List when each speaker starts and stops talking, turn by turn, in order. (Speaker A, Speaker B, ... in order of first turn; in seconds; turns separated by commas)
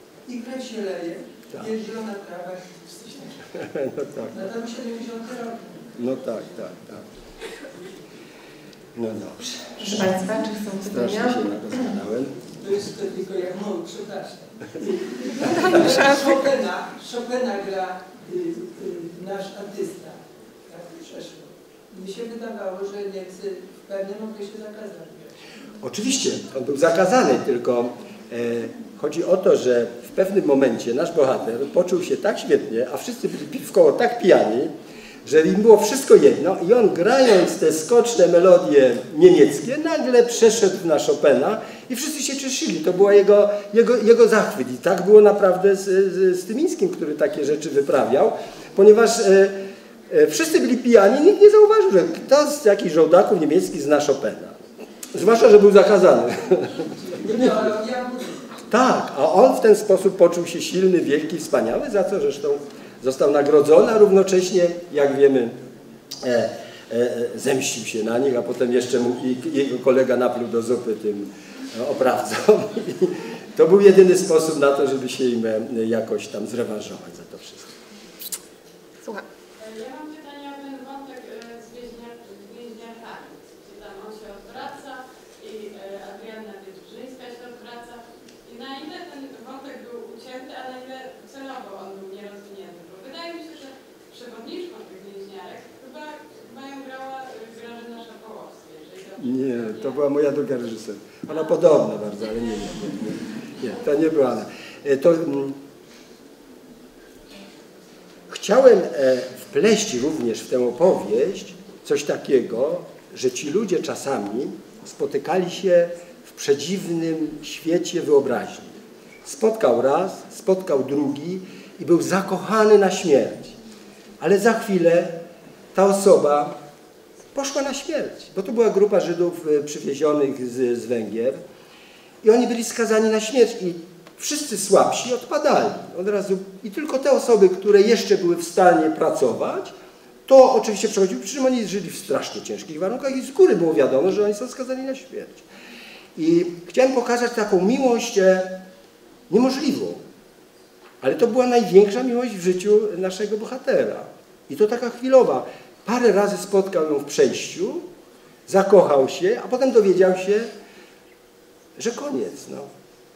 Speaker A: 0.3-3.6, Speaker B: 3.5-4.4, Speaker A: 4.3-6.3, Speaker B: 6.0-7.0, Speaker B: 9.0-10.2, Speaker C: 9.8-11.5, Speaker B: 10.8-12.4, Speaker A: 12.6-25.3, Speaker C: 15.4-16.0, Speaker B: 25.8-34.7, Speaker B: 35.2-49.6, Speaker B: 50.1-54.6, Speaker B: 55.1-57.7, Speaker A: 57.0-58.5, Speaker B: 58.7-65.6, Speaker B: 66.2-77.8, Speaker D: 79.6-100.0, Speaker B: 99.2-105.6, Speaker B: 108.3-123.6, Speaker B: 124.2-125.2, Speaker B: 125.7-126.5, Speaker B: 127.3-131.4, Speaker B: 132.2-139.7, Speaker B: 140.3-145.5, Speaker B: 146.2-148.6, Speaker B: 149.3-150.0, Speaker B: 151.0-157.8, Speaker B: 158.5-160.5, Speaker B: 161.8-162.7